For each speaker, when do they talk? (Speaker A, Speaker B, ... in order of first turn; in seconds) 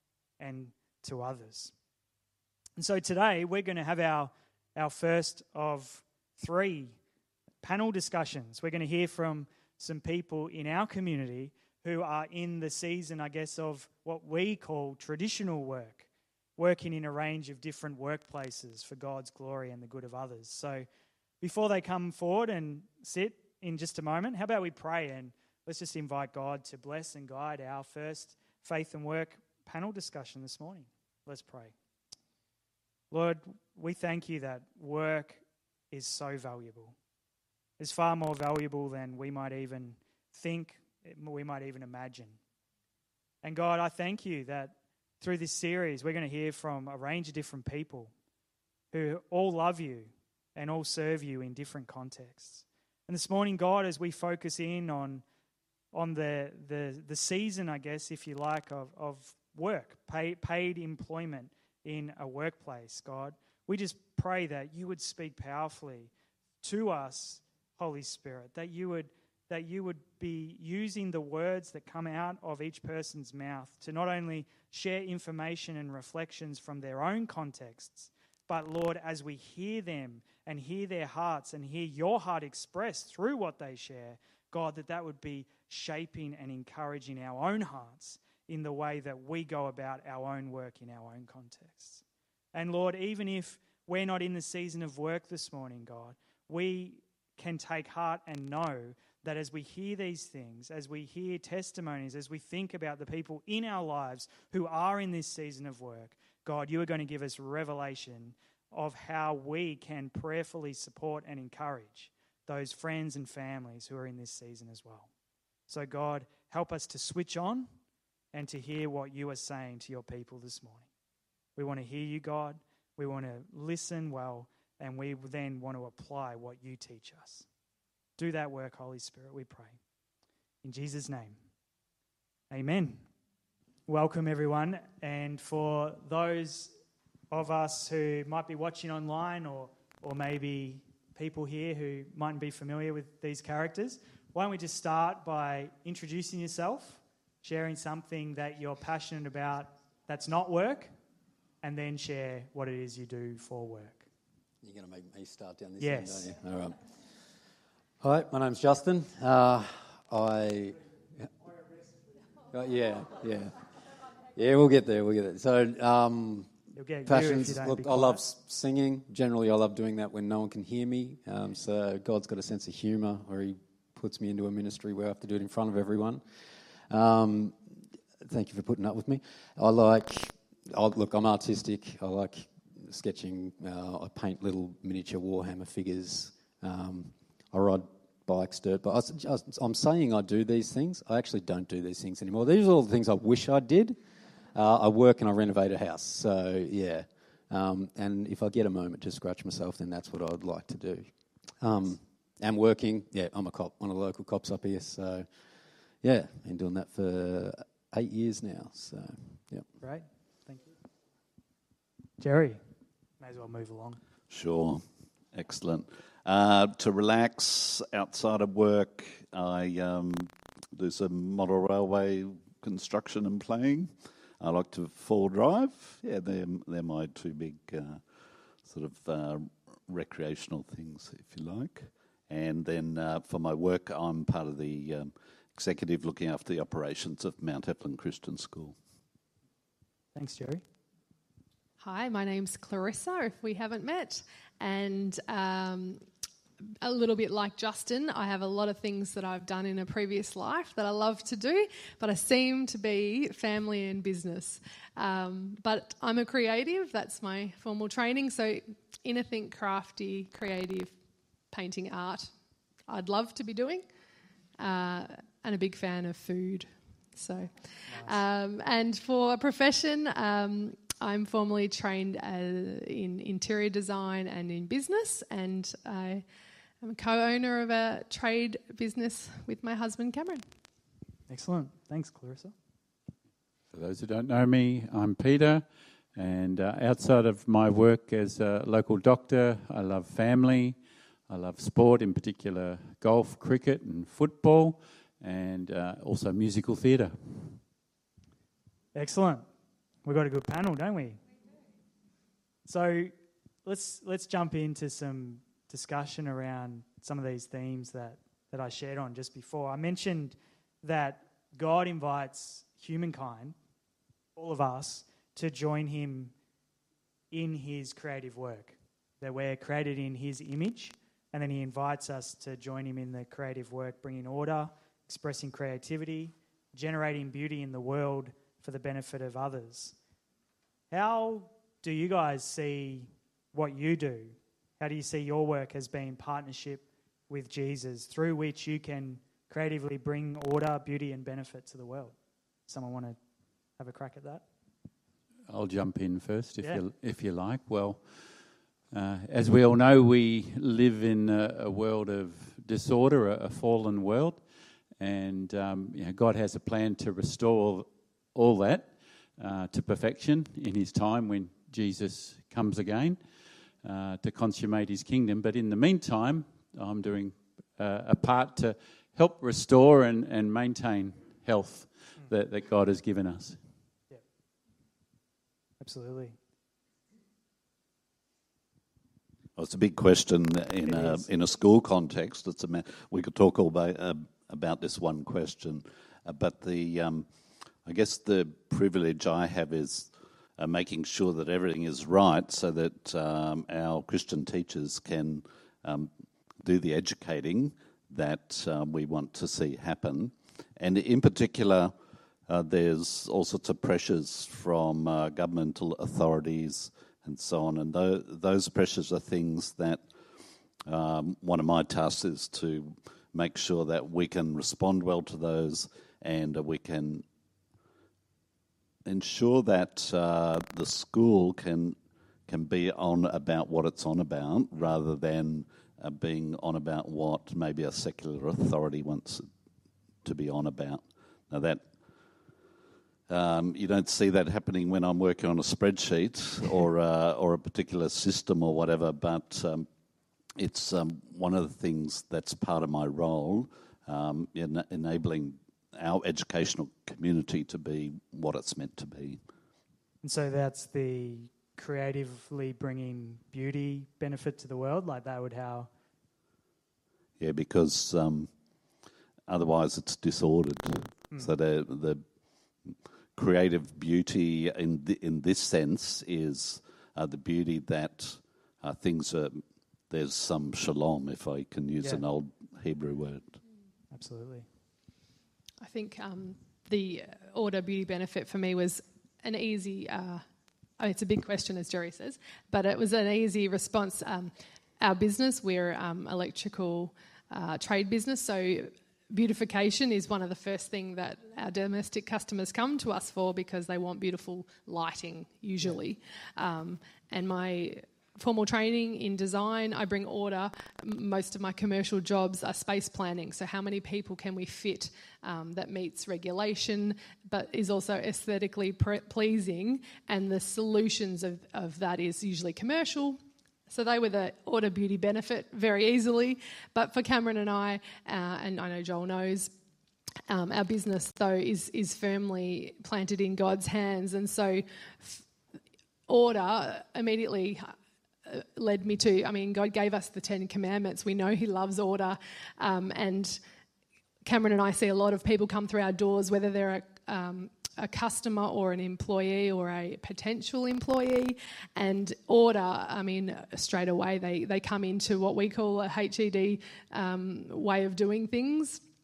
Speaker A: 0.4-1.7, 2.8-7.0, 7.6-20.9, 21.4-31.7, 33.1-37.0, 37.8-42.4, 43.4-48.1, 48.9-55.2, 55.9-66.1, 66.6-92.0, 92.5-115.1, 115.7-117.7, 118.3-120.9, 121.6-127.5, 128.2-129.8, 130.6-131.4, 132.5-133.0, 133.9-136.7, 137.3-150.9, 151.6-154.1, 155.8-156.3, 166.8-168.2, 209.8-210.7, 212.2-212.6, 213.2-214.0, 240.2-240.6, 267.9-268.2, 281.3-282.5, 298.9-299.4, 300.1-301.2, 302.6-303.1, 303.6-313.6, 314.4-316.3, 317.3-329.9, 330.9-342.1, 342.7-343.2, 343.8-344.4, 375.8-376.4, 380.9-381.2, 450.2-455.9, 474.1-474.7
Speaker B: 154.6-156.8, 158.0-161.3, 162.5-163.6, 164.3-166.5, 167.1-176.2, 176.9-177.6, 178.2-194.0, 194.5-201.1, 201.6-205.3, 206.0-209.7
Speaker C: 214.3-228.0, 228.7-238.8, 379.6-387.3, 387.9-396.1, 396.6-401.9, 402.5-410.1, 410.9-417.2, 419.1-422.0, 422.5-429.5, 430.2-431.9, 433.3-439.9, 440.6-449.4, 457.4-458.5, 459.5-462.2, 463.4-473.6
Speaker D: 241.8-246.0, 246.8-260.9, 261.5-262.3, 262.9-263.8, 264.6-276.2, 276.8-280.4, 475.8-480.4, 481.0-519.7, 520.5-525.5, 526.3-527.9, 528.5-533.6, 534.5-549.0
Speaker E: 283.7-290.8, 291.3-297.6, 345.5-348.1, 348.9-354.4, 355.0-363.2, 363.8-373.6